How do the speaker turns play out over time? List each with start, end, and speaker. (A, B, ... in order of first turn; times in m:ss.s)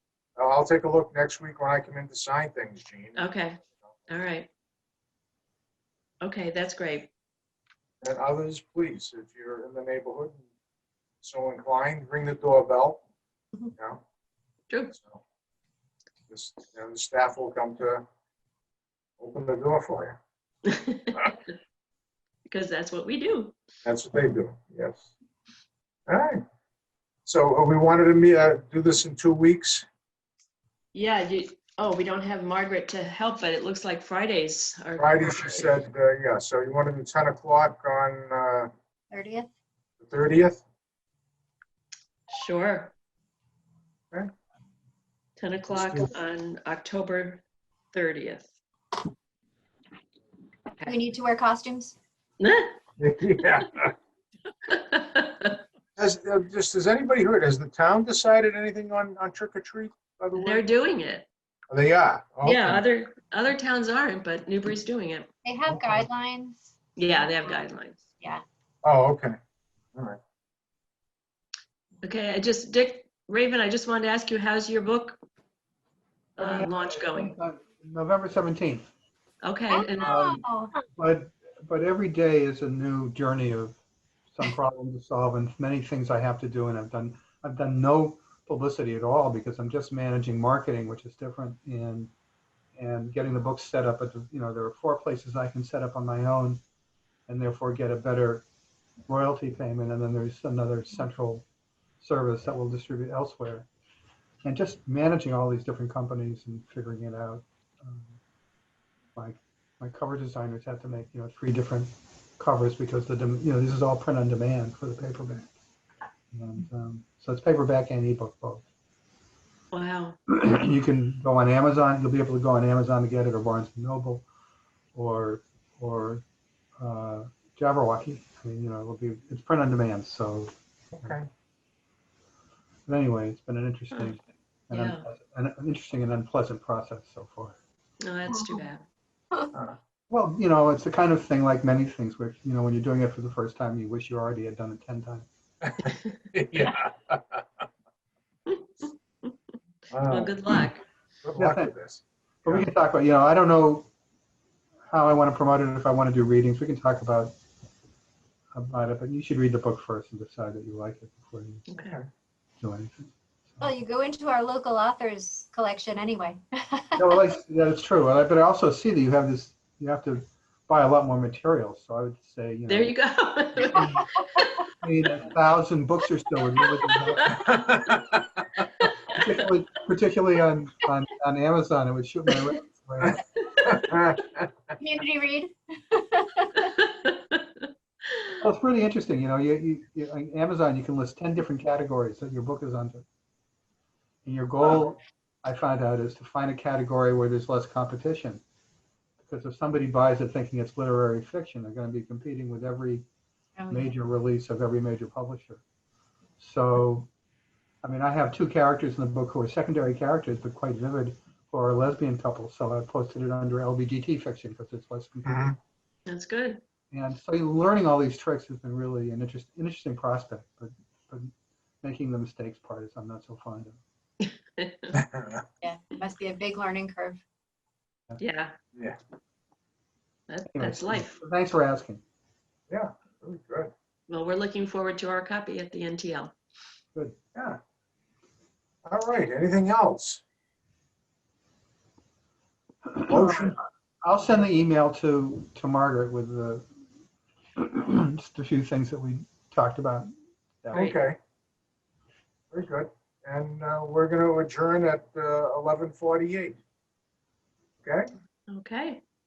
0:00.4-0:03.3 A
0:03.2-0:04.5 B
0:06.2-0:07.1 B
0:08.0-0:10.4 A
0:11.2-0:13.0 A
0:13.8-0:14.0 A
0:14.7-0:15.0 B
0:14.9-0:15.2 A
0:16.3-0:18.1 A
0:19.2-0:20.2 A
0:20.7-0:21.3 B
0:22.5-0:23.5 B
0:23.8-0:25.1 A
0:26.1-0:26.4 A
0:27.2-0:29.8 A
0:30.9-0:35.7 B
0:35.0-0:38.7 A
0:39.1-0:39.5 C
0:40.0-0:40.6 A
0:42.3-0:42.9 B
0:45.4-0:48.5 B
0:45.7-0:46.1 A
0:50.8-0:52.0 C
0:52.4-0:52.8 B
0:53.0-0:53.9 A
0:54.7-0:55.6 B
0:56.0-1:00.6 A
1:00.4-1:01.3 B
1:01.7-1:02.8 A
1:02.4-1:05.3 B
1:05.4-1:07.5 C
1:05.7-1:06.1 A
1:07.0-1:08.0 B
1:08.8-1:09.4 A
1:12.0-1:15.2 B
1:16.4-1:17.4 B
1:16.4-1:18.9 D
1:19.4-1:20.2 B
1:19.7-1:20.8 C
1:20.0-1:23.8 D
1:24.3-1:32.1 D
1:32.8-1:36.6 D
1:37.3-1:38.5 D
1:39.1-1:41.5 D
1:42.0-1:43.7 D
1:44.4-1:48.2 D
1:49.2-1:55.6 D
1:56.3-1:58.6 D
1:59.7-2:00.2 B
2:00.3-2:04.3 D
2:05.0-2:06.2 D
2:06.8-2:11.2 D
2:10.9-2:11.3 A
2:12.9-2:17.6 D
2:14.7-2:15.0 B
2:18.0-2:18.8 B
2:20.1-2:25.3 D
2:25.7-2:27.4 A
2:28.5-2:29.3 B
2:29.9-2:30.4 A
2:30.1-2:30.8 B
2:31.2-2:32.7 A
2:31.4-2:31.8 D
2:32.4-2:33.9 D
2:34.9-2:37.4 D
2:38.5-2:41.7 D
2:41.7-2:42.0 B
2:41.7-2:42.1 A
2:42.6-2:43.7 D
2:43.6-2:47.0 C
2:47.0-2:53.0 D
2:52.7-2:54.5 B
2:53.7-2:54.1 D
2:54.8-2:57.5 D
2:57.2-2:57.4 B
2:57.3-2:58.2 A
2:59.1-3:03.2 D
3:03.6-3:04.3 A
3:04.8-3:06.7 C
3:06.7-3:07.6 B
3:08.4-3:13.0 D
3:14.2-3:18.4 D
3:19.2-3:23.0 D
3:23.6-3:23.9 C
3:23.7-3:25.6 D
3:26.4-3:27.1 D
3:27.8-3:35.6 D
3:35.3-3:35.6 A
3:36.1-3:36.6 B
3:36.9-3:43.8 D
3:44.6-3:45.0 B
3:44.9-3:45.4 A
3:45.6-3:47.2 C
3:48.2-3:48.6 B
3:50.3-3:51.2 B
3:50.5-3:52.0 D
3:52.7-3:53.7 A
3:54.1-3:56.3 B
3:57.4-3:57.6 A
3:58.8-4:00.2 A
4:02.9-4:06.7 D
4:03.1-4:03.6 A
4:07.6-4:10.1 D
4:10.6-4:11.0 D
4:10.7-4:11.2 A
4:12.5-4:16.6 A
4:17.8-4:18.1 A
4:18.5-4:19.0 B